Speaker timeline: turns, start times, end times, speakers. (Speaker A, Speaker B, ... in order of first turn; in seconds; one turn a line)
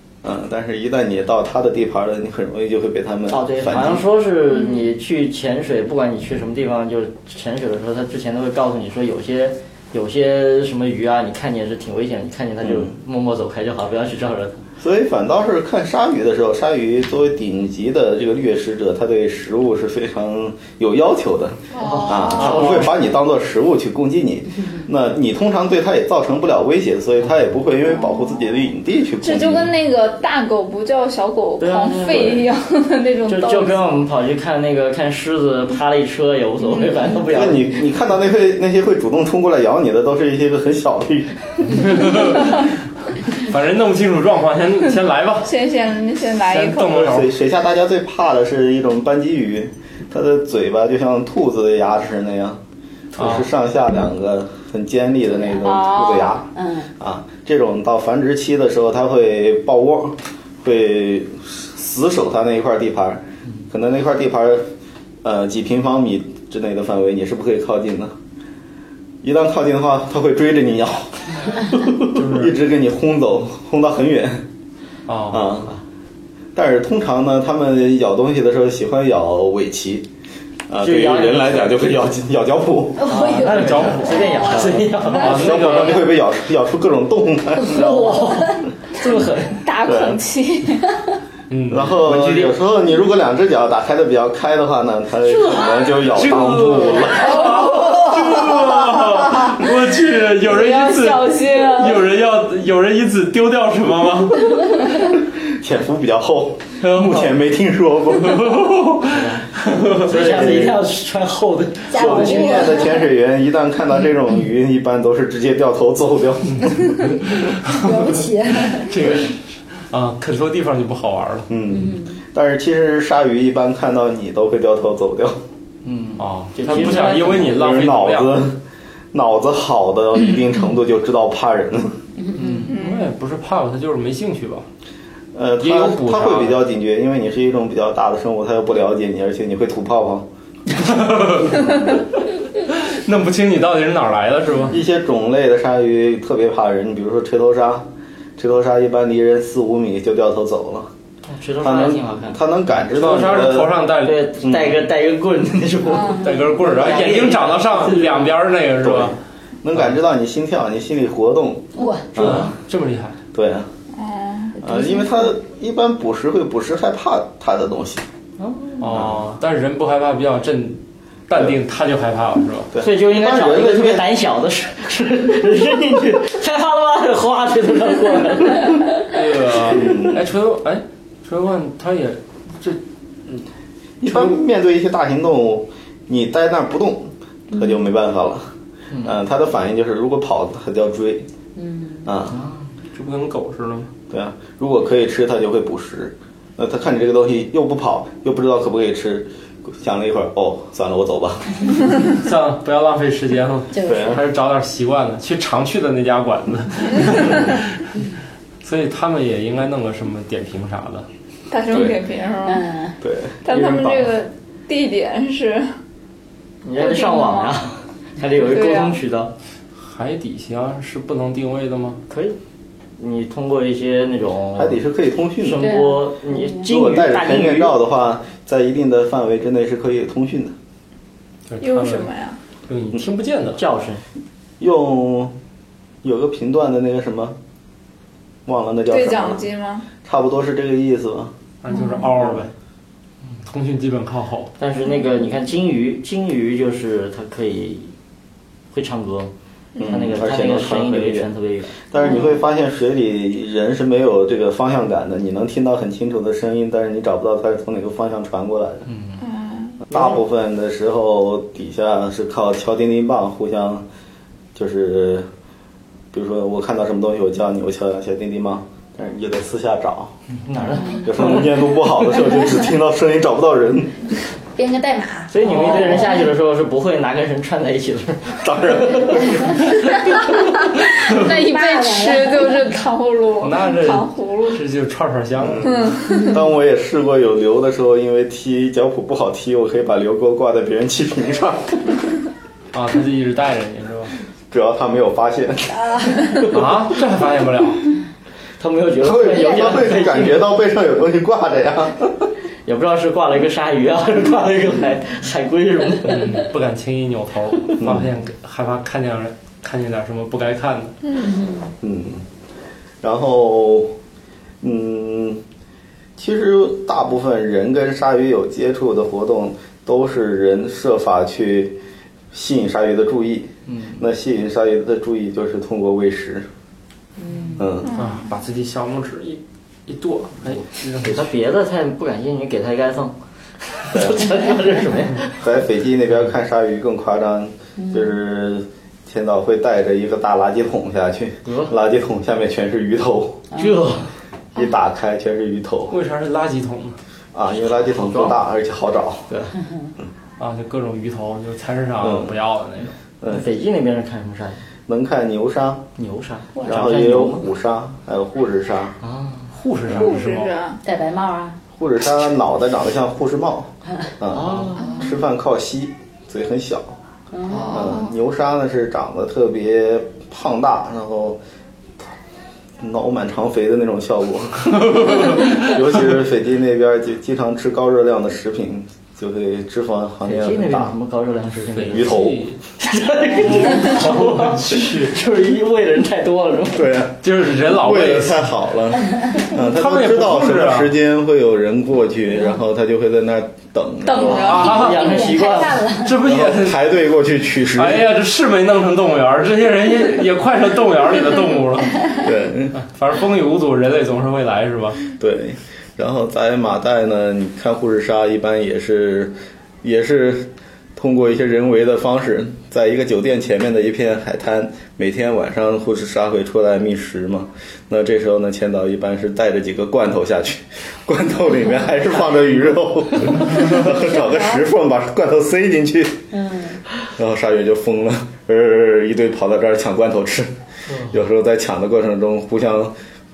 Speaker A: 0.2-4.0
Speaker B: 3.3-14.6
Speaker A: 12.6-12.9
Speaker A: 14.8-29.7
Speaker C: 21.7-22.7
Speaker B: 21.8-22.9
Speaker C: 29.2-33.9
Speaker B: 31.6-32.5
Speaker B: 33.3-37.8
Speaker A: 37.3-42.0
Speaker D: 41.7-42.7
Speaker D: 43.3-45.5
Speaker C: 45.4-47.1
Speaker D: 46.4-47.3
Speaker A: 46.9-52.6
Speaker D: 53.1-53.5
Speaker A: 53.1-64.7
Speaker E: 55.3-55.8
Speaker C: 55.6-56.4
Speaker E: 56.5-56.9
Speaker A: 65.2-68.1
Speaker A: 69.2-74.5
Speaker D: 72.1-72.5
Speaker D: 75.1-75.5
Speaker A: 75.3-75.7
Speaker A: 76.5-80.1
Speaker A: 80.7-83.2
Speaker B: 80.8-81.8
Speaker E: 83.0-84.8
Speaker B: 83.0-85.8
Speaker D: 83.2-86.1
Speaker A: 84.5-88.2
Speaker B: 87.6-89.6
Speaker E: 87.8-88.6
Speaker C: 89.5-90.9
Speaker A: 89.8-90.2
Speaker D: 91.5-92.5
Speaker A: 91.7-97.5
Speaker B: 95.2-95.9
Speaker D: 96.1-104.9
Speaker B: 97.3-98.1
Speaker A: 98.3-98.7
Speaker C: 100.5-102.1
Speaker A: 105.4-108.8
Speaker B: 106.9-107.2
Speaker D: 108.2-110.4
Speaker B: 109.0-112.7
Speaker A: 110.1-110.8
Speaker E: 111.9-113.1
Speaker A: 111.9-117.0
Speaker D: 117.3-121.5
Speaker E: 117.7-119.1
Speaker A: 121.5-125.4
Speaker E: 121.7-122.2
Speaker B: 125.8-127.6
Speaker D: 126.2-128.4
Speaker A: 126.8-128.6
Speaker A: 129.1-132.0
Speaker E: 132.2-132.7
Speaker B: 132.3-132.8
Speaker C: 132.7-133.1
Speaker D: 132.7-134.7
Speaker A: 135.3-140.3
Speaker D: 135.6-136.6
Speaker D: 140.8-142.0
Speaker D: 142.6-144.8
Speaker A: 144.7-150.9
Speaker B: 151.3-152.4
Speaker A: 151.6-153.8
Speaker D: 152.9-154.3
Speaker B: 154.0-158.3
Speaker A: 154.4-154.8
Speaker C: 155.9-156.3
Speaker E: 156.0-156.4
Speaker D: 156.2-159.2
Speaker A: 158.8-162.6
Speaker E: 161.8-162.1
Speaker D: 162.2-163.2
Speaker A: 163.3-163.7
Speaker C: 163.9-164.6
Speaker A: 164.6-168.1
Speaker E: 164.6-165.2
Speaker B: 168.4-168.8
Speaker D: 168.8-172.7
Speaker A: 168.9-169.2
Speaker A: 171.3-171.6
Speaker A: 172.7-174.1
Speaker B: 172.8-178.8
Speaker D: 179.0-182.8
Speaker A: 179.7-180.2
Speaker A: 184.0-188.5
Speaker B: 188.9-189.2
Speaker A: 189.0-191.3
Speaker E: 191.6-192.1
Speaker A: 192.0-192.4
Speaker B: 192.3-192.7
Speaker D: 192.9-193.9
Speaker A: 194.1-201.7
Speaker D: 202.1-207.9
Speaker E: 203.7-204.2
Speaker A: 203.8-204.2
Speaker D: 208.6-211.1
Speaker C: 211.5-212.6
Speaker E: 212.4-213.0
Speaker A: 213.0-213.9
Speaker C: 213.4-215.7
Speaker B: 216.6-219.3
Speaker C: 216.8-217.6
Speaker C: 218.4-219.0
Speaker D: 219.8-222.0
Speaker B: 222.1-222.4
Speaker B: 223.0-224.8
Speaker A: 224.6-225.7
Speaker B: 225.4-227.8
Speaker E: 225.6-226.6
Speaker A: 226.6-230.5
Speaker D: 231.5-232.1
Speaker C: 231.6-232.4
Speaker D: 232.7-233.6
Speaker B: 233.6-234.0
Speaker A: 234.6-235.3
Speaker A: 236.0-237.4
Speaker A: 238.4-239.4
Speaker C: 238.9-239.9
Speaker A: 240.0-241.3
Speaker D: 241.6-242.5
Speaker E: 241.7-242.0
Speaker A: 242.1-242.4
Speaker D: 243.4-244.5
Speaker B: 244.6-247.9
Speaker B: 248.7-249.3
Speaker C: 249.7-250.0
Speaker A: 249.8-251.3
Speaker B: 249.8-251.8
Speaker A: 251.8-258.9
Speaker E: 252.0-252.4
Speaker B: 258.9-259.2
Speaker C: 259.2-259.8
Speaker A: 259.9-263.8
Speaker A: 264.5-265.3
Speaker A: 266.1-270.1
Speaker B: 270.3-271.6
Speaker A: 271.0-274.0
Speaker E: 274.6-276.3
Speaker B: 275.3-280.5
Speaker A: 278.4-279.6
Speaker E: 279.4-279.8
Speaker C: 280.9-284.6
Speaker E: 281.1-282.8
Speaker D: 283.4-285.9
Speaker A: 285.4-292.1
Speaker C: 285.6-286.4
Speaker E: 286.1-286.5
Speaker D: 292.7-294.1
Speaker A: 294.5-295.8
Speaker E: 295.7-296.5
Speaker D: 296.5-297.9
Speaker B: 298.6-300.4
Speaker A: 299.0-302.1
Speaker E: 299.3-300.1
Speaker B: 302.6-306.4
Speaker D: 306.0-310.9
Speaker A: 307.8-308.1
Speaker E: 311.1-311.7
Speaker A: 311.8-312.2
Speaker A: 313.0-313.9
Speaker A: 314.6-315.4
Speaker A: 316.2-321.8
Speaker A: 322.3-326.5
Speaker B: 323.7-324.0
Speaker E: 327.2-327.7
Speaker A: 327.6-327.9
Speaker C: 327.8-328.2
Speaker D: 327.9-331.3
Speaker B: 330.5-335.4
Speaker A: 333.9-334.3
Speaker A: 335.4-343.4
Speaker E: 337.8-338.1
Speaker B: 341.4-341.7
Speaker B: 343.5-344.1
Speaker A: 344.5-345.9
Speaker D: 345.9-347.0
Speaker A: 347.3-349.3
Speaker B: 347.9-348.4
Speaker B: 349.3-349.6
Speaker E: 349.6-349.9
Speaker D: 350.4-352.9
Speaker A: 352.0-352.4
Speaker B: 353.3-354.6
Speaker A: 354.9-355.9
Speaker B: 356.0-357.5
Speaker A: 356.6-359.0
Speaker B: 359.0-359.5
Speaker D: 359.5-360.5
Speaker C: 359.9-360.8
Speaker E: 360.8-361.6
Speaker A: 361.7-366.9
Speaker B: 364.3-365.0
Speaker E: 367.3-367.9
Speaker C: 367.5-368.1
Speaker A: 367.7-371.4
Speaker A: 372.8-380.9
Speaker D: 375.0-375.4
Speaker B: 380.2-382.2
Speaker D: 381.8-382.6
Speaker A: 381.9-382.4
Speaker B: 382.8-386.9
Speaker D: 383.4-385.1
Speaker A: 386.7-394.7
Speaker D: 387.2-388.5
Speaker D: 389.4-390.9
Speaker C: 394.0-394.9
Speaker D: 394.3-395.3
Speaker B: 394.4-395.9
Speaker E: 394.6-396.2
Speaker D: 396.0-396.9
Speaker A: 396.2-398.1
Speaker D: 397.7-402.1
Speaker A: 402.2-402.8
Speaker D: 402.7-405.0
Speaker A: 405.2-426.3
Speaker E: 423.5-424.6
Speaker E: 426.3-426.8
Speaker A: 427.2-430.5
Speaker B: 430.9-431.1
Speaker A: 431.1-432.9